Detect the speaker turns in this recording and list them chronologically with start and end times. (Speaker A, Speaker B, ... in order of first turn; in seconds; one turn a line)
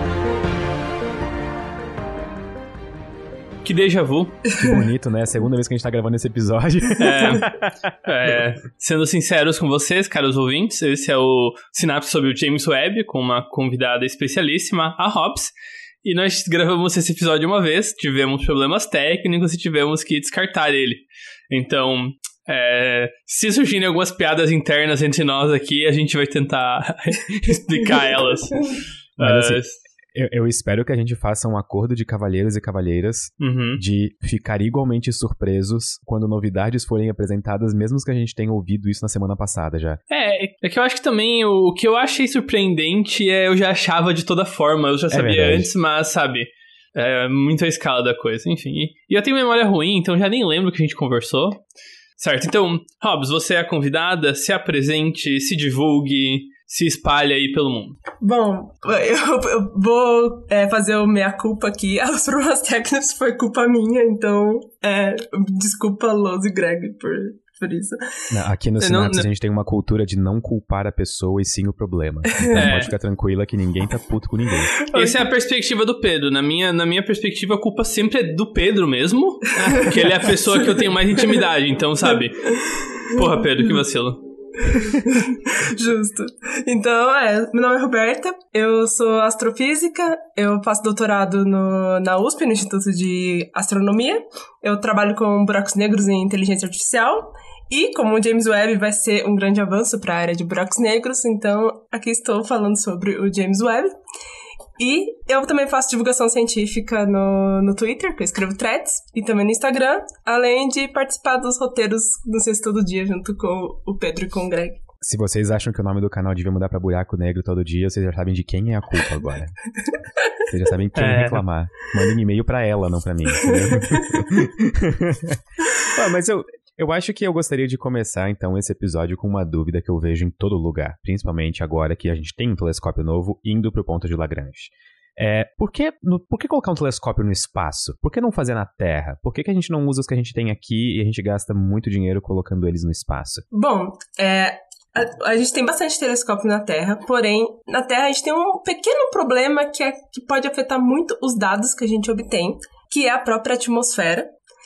Speaker A: 3.6-4.5
Speaker B: 4.6-7.7
Speaker A: 7.0-7.5
Speaker A: 8.0-15.5
Speaker A: 16.0-29.8
Speaker B: 29.2-29.6
Speaker B: 30.1-40.0
Speaker A: 33.4-33.8
Speaker A: 40.1-51.6
Speaker B: 45.1-45.7
Speaker A: 52.2-58.0
Speaker C: 58.2-68.0
Speaker B: 68.3-74.8
Speaker A: 68.8-69.3
Speaker A: 72.5-72.9
Speaker A: 74.8-85.0
Speaker C: 74.8-75.2
Speaker C: 82.6-83.2
Speaker C: 84.8-103.9
Speaker C: 104.8-114.8
Speaker B: 115.0-119.5
Speaker B: 120.5-143.4
Speaker A: 121.0-121.4
Speaker C: 143.5-154.3